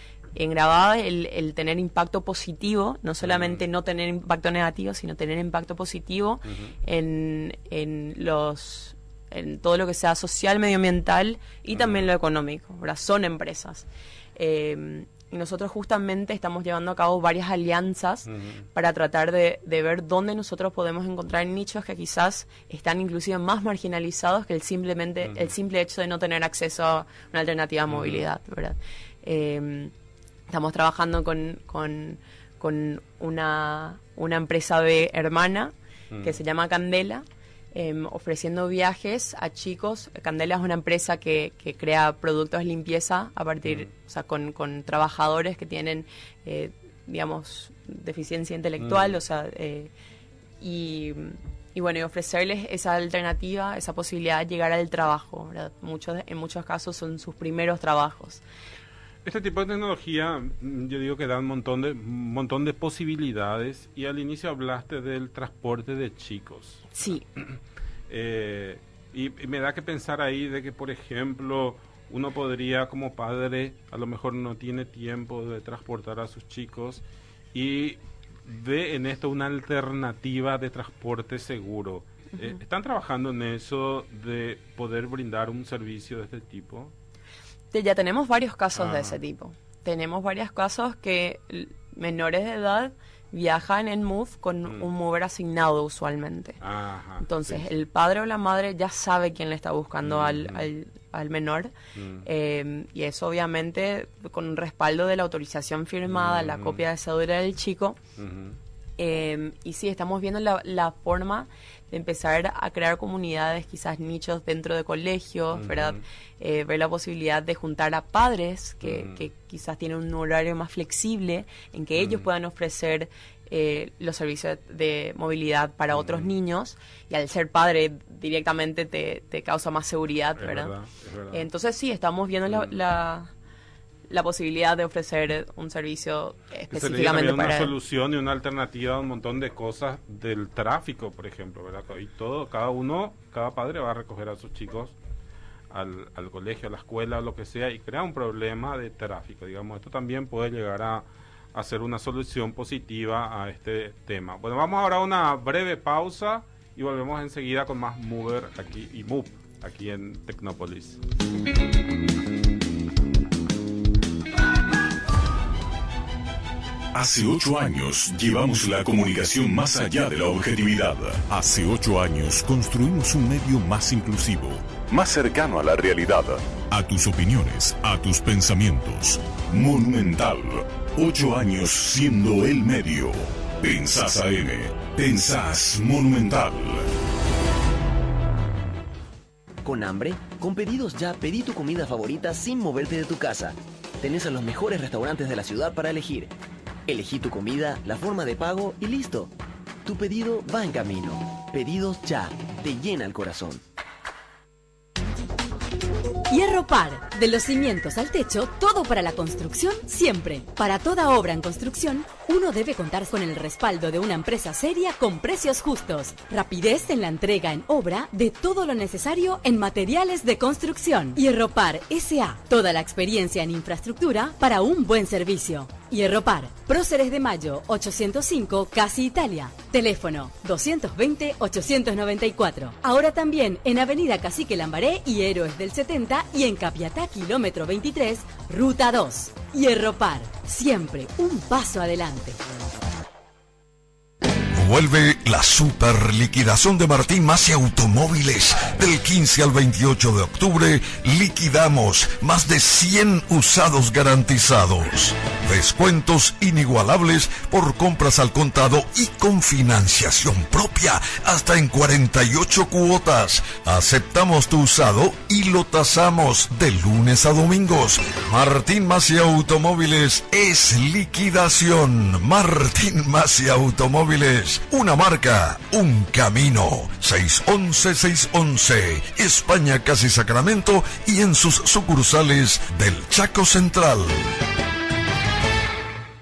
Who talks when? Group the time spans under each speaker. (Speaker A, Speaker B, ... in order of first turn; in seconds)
Speaker A: 0.3-29.9, 30.5-49.9, 50.6-58.4, 66.9-67.2, 87.7-96.6, 97.2-101.7, 102.2-108.0, 109.0-130.7, 131.3-133.3, 134.1-137.7
Speaker B: 3.2-3.6, 6.5-6.7, 11.7-12.0, 18.3-18.6, 27.9-28.2, 36.1-36.4, 43.6-43.9, 48.8-49.2, 59.2-67.6, 68.1-86.9, 88.7-89.2, 96.6-97.8, 100.0-100.7, 101.9-102.3, 106.1-106.8, 108.2-108.6, 115.5-116.0, 118.8-119.2, 121.9-122.3, 125.9-126.3, 130.4-131.5, 132.5-132.8, 136.7-144.9, 145.7-161.0
Speaker C: 166.9-186.9
Speaker D: 189.6-196.3, 196.9-199.3, 199.8-203.6
Speaker E: 206.3-242.4
Speaker F: 244.5-284.2